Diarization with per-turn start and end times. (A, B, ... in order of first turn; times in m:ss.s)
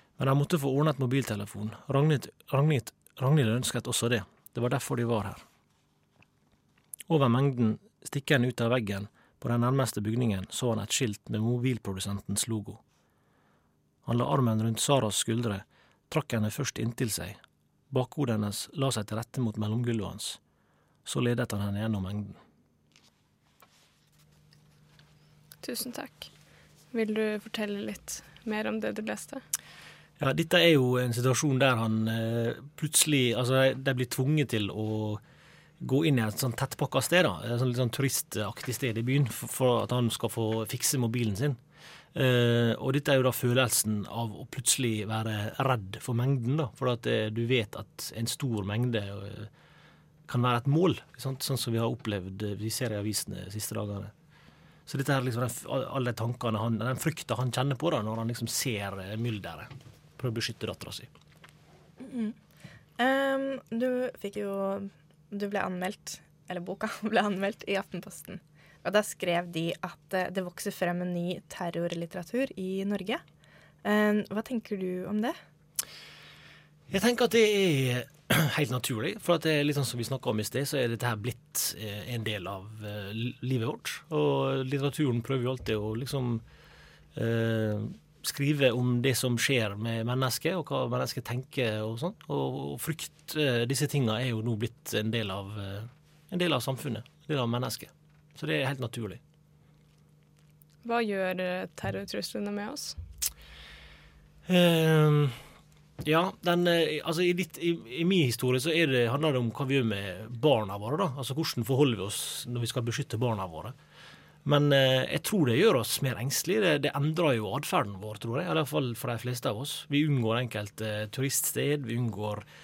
0:00.2-0:05.4 A
0:07.1-0:12.8 A
0:14.0-0:17.4 A
0:17.9-0:20.4 A
0:21.1-0:22.4 A
0:25.6-0:26.3 B
0:26.9-0:29.4 B
0:30.2-0:35.2 A
0:35.8-0:41.6 A
0:42.2-0:49.5 A
0:50.3-0:54.1 A
0:54.9-1:01.1 A
1:02.0-1:02.4 C
1:03.0-1:13.2 C
1:13.8-1:15.4 C
1:16.9-1:26.4 A
1:27.2-1:39.2 A
1:40.8-1:43.0 B
1:44.5-1:45.4 A
1:46.0-1:53.8 A
1:54.4-2:02.4 A